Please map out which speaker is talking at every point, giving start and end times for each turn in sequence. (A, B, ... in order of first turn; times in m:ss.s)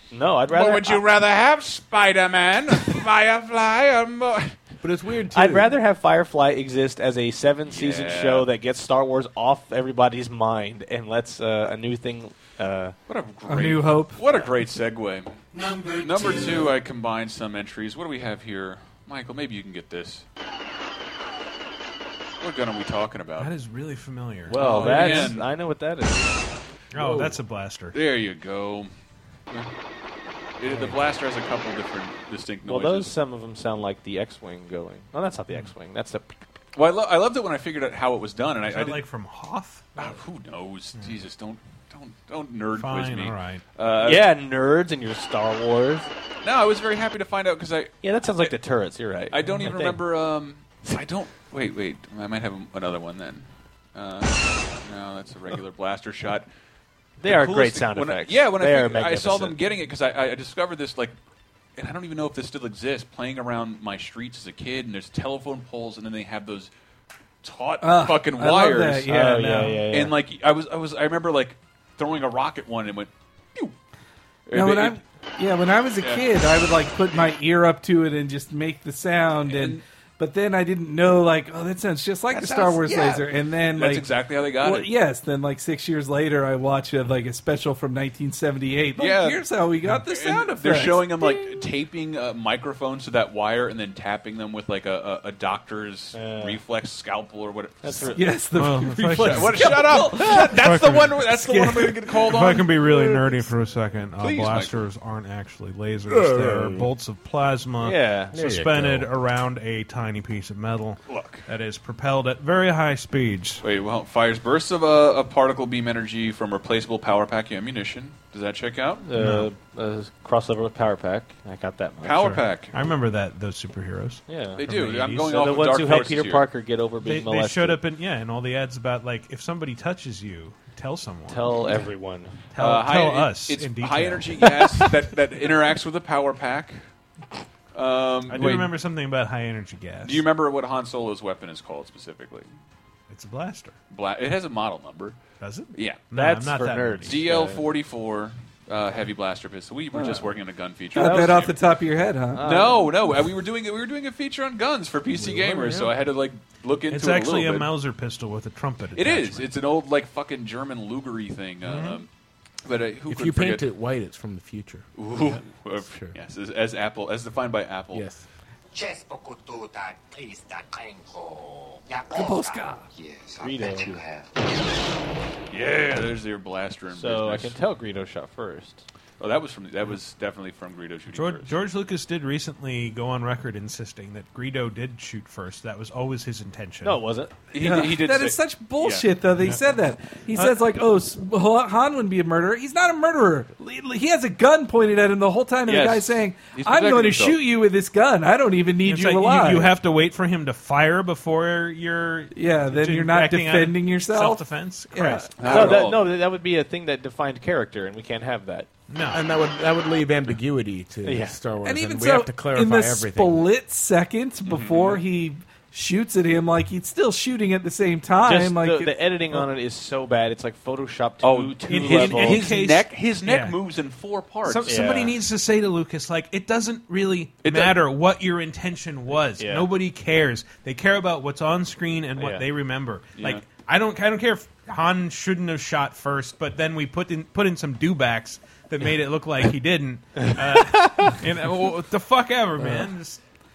0:00.1-0:01.0 A
0:00.5-0:04.5 B
0:04.8-0:05.8 C
0:05.3-0:13.0 A
0:07.6-0:08.5 B
0:13.1-0:15.4 B
0:13.5-0:14.2 D
0:16.0-0:20.2 B
0:22.4-0:23.5 B
0:23.4-0:25.4 E
0:24.5-0:26.4 A
0:24.5-0:25.5 B
0:26.9-0:28.0 E
0:27.0-0:27.3 C
0:27.9-0:28.9 B
0:30.6-0:33.1 B
0:32.6-0:36.4 A
0:36.7-0:39.0 B
0:38.6-0:39.9 E
0:40.0-0:44.3 B
0:42.8-0:43.6 E
0:44.0-0:46.1 A
0:46.4-0:48.5 B
0:48.0-0:50.0 A
0:49.3-0:56.5 B
0:57.2-0:59.6 A
0:57.2-1:01.1 B
1:01.8-1:06.7 B
1:07.4-1:09.1 B
1:07.8-1:09.8 D
1:09.0-1:10.1 A
1:09.9-1:13.7 B
1:14.5-1:15.0 B
1:14.5-1:24.1 D
1:16.0-1:16.3 B
1:19.4-1:19.8 B
1:22.3-1:24.9 B
1:24.6-1:31.3 D
1:29.0-1:29.5 B
1:30.0-1:38.1 B
1:36.1-1:36.6 A
1:37.8-1:38.3 A
1:38.1-1:40.6 D
1:38.5-1:41.6 E
1:39.2-1:42.8 B
1:41.3-1:41.9 D
1:42.1-1:53.6 E
1:44.2-1:44.8 B
1:46.1-1:46.9 C
1:47.8-1:48.5 A
1:48.3-1:49.1 C
1:51.1-1:51.4 B
1:53.6-1:59.0 B
1:59.0-2:02.4 A
1:59.1-1:59.5 E
2:02.0-2:02.7 B
2:02.7-2:05.3 E
2:04.3-2:04.6 A
2:04.6-2:06.4 B
2:05.2-2:07.8 A
2:07.0-2:11.7 E
2:11.3-2:12.4 A
2:12.5-2:14.9 E
2:12.6-2:16.8 B
2:17.7-2:18.7 B
2:18.3-2:20.2 E
2:20.0-2:22.5 B
2:23.1-2:23.8 E
2:23.9-2:25.2 B
2:25.4-2:27.2 E
2:25.7-2:26.1 B
2:26.1-2:27.6 A
2:27.0-2:31.6 B
2:30.9-2:31.4 A
2:30.9-2:32.4 D
2:32.3-2:33.0 A
2:32.4-2:37.7 B
2:35.2-2:35.9 C
2:36.9-2:39.5 E
2:38.9-2:42.1 B
2:41.7-2:42.0 E
2:42.6-2:43.6 B
2:43.1-2:44.9 C
2:45.0-2:48.0 B
2:45.8-2:46.1 C
2:47.9-2:48.2 C
2:48.7-2:54.8 F
2:52.1-2:52.8 D
2:53.4-2:53.9 A
2:55.5-2:57.6 B
2:56.9-2:58.8 A
2:59.2-3:01.5 B
3:01.1-3:07.0 E
3:06.8-3:07.3 A
3:07.5-3:09.1 B
3:07.6-3:19.7 D
3:15.6-3:17.4 B
3:18.8-3:25.7 E
3:22.3-3:25.5 D
3:25.4-3:26.2 B
3:25.4-3:28.7 A
3:28.9-3:29.2 E
3:29.1-3:33.5 C
3:31.0-3:31.4 A
3:31.6-3:39.1 D
3:34.4-3:35.0 B
3:38.2-3:42.5 A
3:41.2-3:45.0 B
3:41.7-3:43.6 E
3:44.4-4:03.2 E
3:44.6-3:45.2 A
3:47.4-3:47.8 B
3:49.4-3:49.7 A
3:52.2-3:52.4 A
3:53.2-3:53.4 B
4:00.2-4:01.1 A
4:02.6-4:02.9 A